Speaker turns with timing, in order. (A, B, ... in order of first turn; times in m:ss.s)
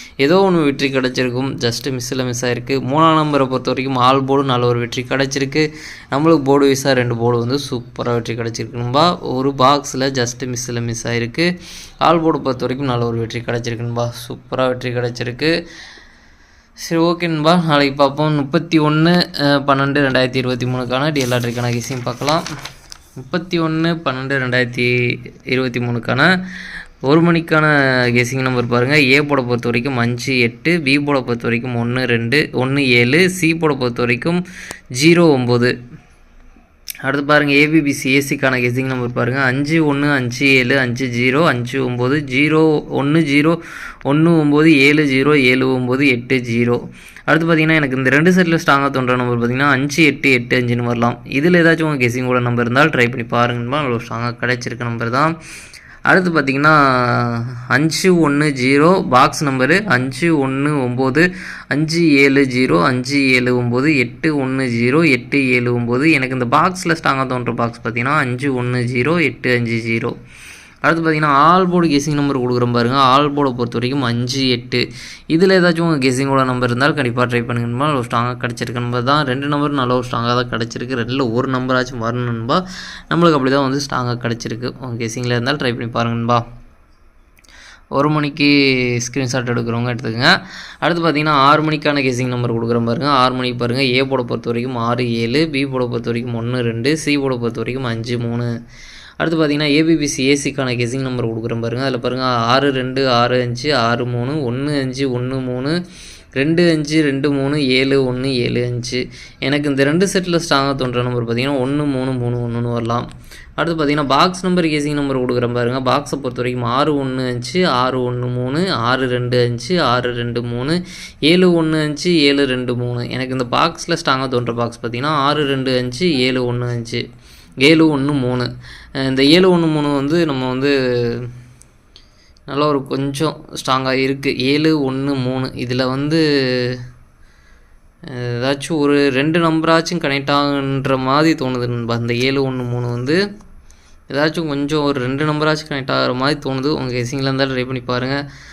0:00.2-0:11.5 A
0:12.0-0:15.5 A
0:16.8-0:22.4 A
0:23.2-0:24.9 A
0:25.5-0:26.3 A
0:27.1-0:34.4 A
0:35.0-0:35.7 A
0:37.0-0:55.3 A
0:56.1-1:10.1 A
1:10.8-1:26.4 A
1:28.0-1:30.3 A
1:30.8-1:38.5 A
1:39.2-1:45.7 A
1:46.4-1:53.1 A
1:53.6-2:07.0 A
2:07.6-2:08.5 A
2:09.0-2:11.3 A
2:12.5-2:16.8 A
2:18.1-2:23.2 A
2:24.1-2:28.2 A